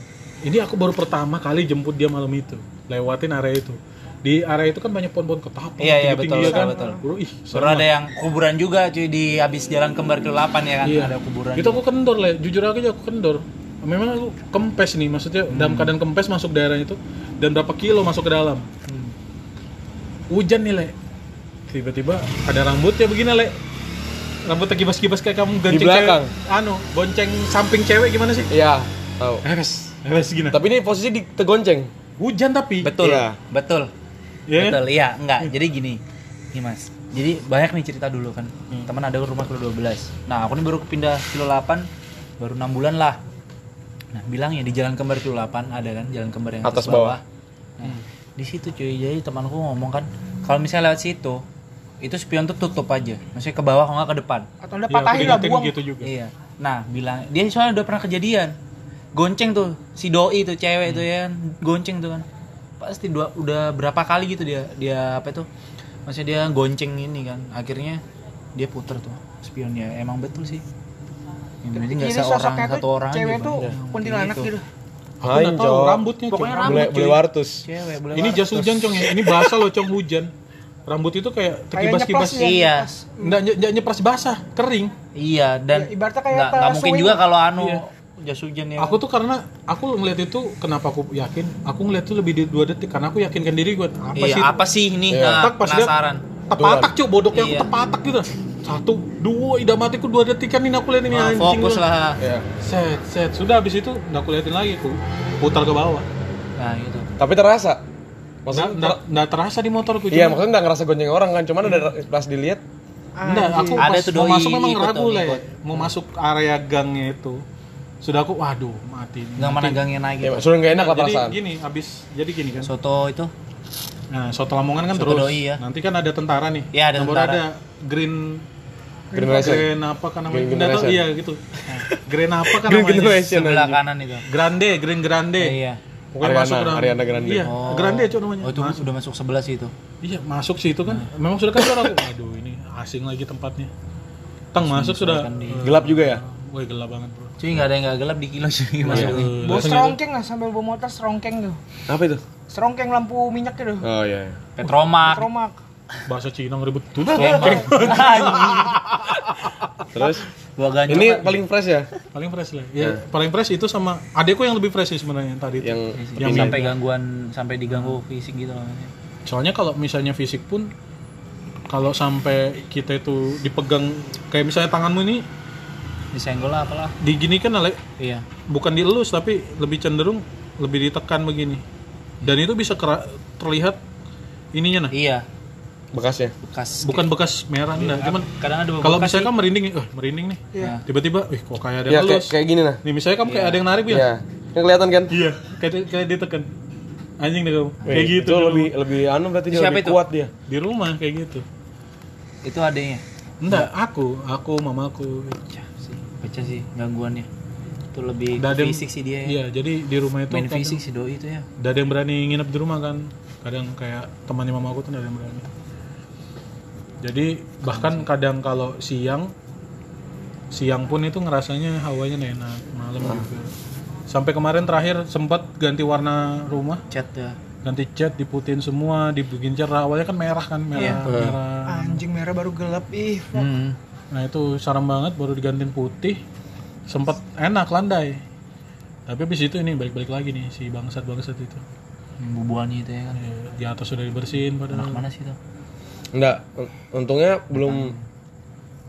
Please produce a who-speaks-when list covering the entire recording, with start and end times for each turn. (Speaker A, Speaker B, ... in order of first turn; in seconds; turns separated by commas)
Speaker A: 0.4-7.9, Speaker B: 5.8-7.0, Speaker C: 6.4-7.0, Speaker B: 7.5-11.8, Speaker A: 10.8-18.7, Speaker B: 15.5-15.9, Speaker B: 18.9-19.1, Speaker A: 20.3-20.9, Speaker A: 21.7-23.6, Speaker A: 24.4-28.5, Speaker D: 25.7-26.3, Speaker D: 28.5-29.4, Speaker A: 29.4-30.6, Speaker D: 30.5-31.9, Speaker A: 32.2-32.9, Speaker B: 32.8-33.9, Speaker D: 33.0-33.4, Speaker A: 34.5-34.8, Speaker B: 34.6-36.0, Speaker B: 36.5-41.9, Speaker B: 42.4-43.2, Speaker B: 44.1-47.2, Speaker D: 46.6-47.2, Speaker B: 47.8-51.4, Speaker B: 52.0-54.5, Speaker C: 54.6-55.7, Speaker A: 54.9-56.1, Speaker B: 55.1-55.4, Speaker B: 56.0-58.5, Speaker B: 59.1-62.2, Speaker B: 62.8-65.5, Speaker B: 66.0-68.0, Speaker B: 68.5-70.6, Speaker B: 71.6-74.5, Speaker C: 71.7-74.6, Speaker A: 75.2-77.1, Speaker D: 75.2-76.0, Speaker B: 76.3-79.5, Speaker D: 76.6-77.6, Speaker A: 78.1-80.3, Speaker A: 80.9-82.5, Speaker C: 81.7-83.3, Speaker B: 82.4-82.9, Speaker A: 83.2-84.9, Speaker B: 85.1-89.0, Speaker C: 85.7-87.2, Speaker A: 88.8-94.6, Speaker B: 94.2-96.2, Speaker D: 95.1-95.5, Speaker A: 95.4-95.9, Speaker A: 96.5-101.8, Speaker D: 96.6-96.9, Speaker B: 97.3-97.7, Speaker B: 101.1-102.2, Speaker D: 102.2-102.5, Speaker A: 102.6-106.1, Speaker B: 106.6-107.1, Speaker D: 107.2-107.8, Speaker D: 108.4-109.0, Speaker A: 108.5-110.4, Speaker D: 110.1-112.6, Speaker A: 111.6-111.9, Speaker C: 113.2-113.8, Speaker A: 113.2-117.4, Speaker B: 113.8-115.9, Speaker A: 118.0-119.8, Speaker B: 119.4-120.5, Speaker D: 120.2-121.4, Speaker A: 120.7-122.7, Speaker B: 122.6-123.3, Speaker A: 124.1-128.4, Speaker B: 124.9-125.6, Speaker B: 126.7-127.4, Speaker C: 129.1-129.6, Speaker D: 129.1-129.7, Speaker A: 129.2-131.4, Speaker D: 130.3-131.0, Speaker A: 131.9-133.3, Speaker D: 132.4-133.8, Speaker B: 133.1-134.2, Speaker A: 134.2-135.6, Speaker B: 135.4-135.8, Speaker A: 136.2-138.8, Speaker D: 136.2-137.5, Speaker B: 137.4-139.7, Speaker A: 140.0-143.7, Speaker A: 144.5-147.3, Speaker B: 144.6-145.7, Speaker D: 145.6-146.2, Speaker B: 147.4-149.6, Speaker A: 148.8-150.0, Speaker D: 148.9-149.2, Speaker C: 149.3-151.6, Speaker D: 151.9-152.2, Speaker C: 152.5-153.8, Speaker D: 153.8-154.4, Speaker B: 154.6-155.3, Speaker C: 155.0-155.6, Speaker A: 156.1-159.4, Speaker B: 157.1-158.8, Speaker D: 159.9-160.2, Speaker B: 160.6-161.3, Speaker D: 160.9-161.9, Speaker A: 160.9-161.3, Speaker A: 162.1-166.7, Speaker D: 165.6-166.6, Speaker B: 165.9-168.9, Speaker A: 167.7-168.0, Speaker A: 169.2-170.7, Speaker A: 171.7-175.2, Speaker B: 176.1-176.9, Speaker A: 177.0-177.8, Speaker B: 178.0-178.2, Speaker A: 178.5-181.6, Speaker A: 182.2-183.8, Speaker A: 184.5-184.9, Speaker B: 184.9-185.2, Speaker D: 185.9-186.3, Speaker B: 186.4-187.1, Speaker A: 186.8-188.3, Speaker B: 187.8-189.3, Speaker A: 188.8-194.1, Speaker C: 190.5-190.8, Speaker B: 190.6-190.8, Speaker D: 191.9-192.8, Speaker B: 193.2-193.6, Speaker D: 193.9-195.1, Speaker A: 195.1-196.5, Speaker A: 197.2-198.7, Speaker D: 197.9-200.3, Speaker B: 199.5-200.0, Speaker A: 200.5-201.4, Speaker B: 202.4-203.7, Speaker A: 203.4-205.4, Speaker B: 205.5-207.3, Speaker B: 207.9-209.4, Speaker A: 208.4-210.8, Speaker B: 210.3-211.5, Speaker A: 211.6-215.5, Speaker A: 217.0-219.3, Speaker B: 217.7-218.1, Speaker A: 220.5-223.5, Speaker D: 223.0-223.3, Speaker A: 224.1-226.8, Speaker B: 226.9-227.4, Speaker A: 227.6-232.0, Speaker B: 230.8-231.0, Speaker D: 231.1-231.4, Speaker C: 231.7-233.5, Speaker B: 233.3-233.8, Speaker A: 234.1-236.2, Speaker A: 236.9-238.2, Speaker A: 239.1-241.6, Speaker B: 242.2-243.2, Speaker A: 243.2-245.0, Speaker B: 244.7-245.4, Speaker D: 246.1-247.9, Speaker B: 247.7-247.9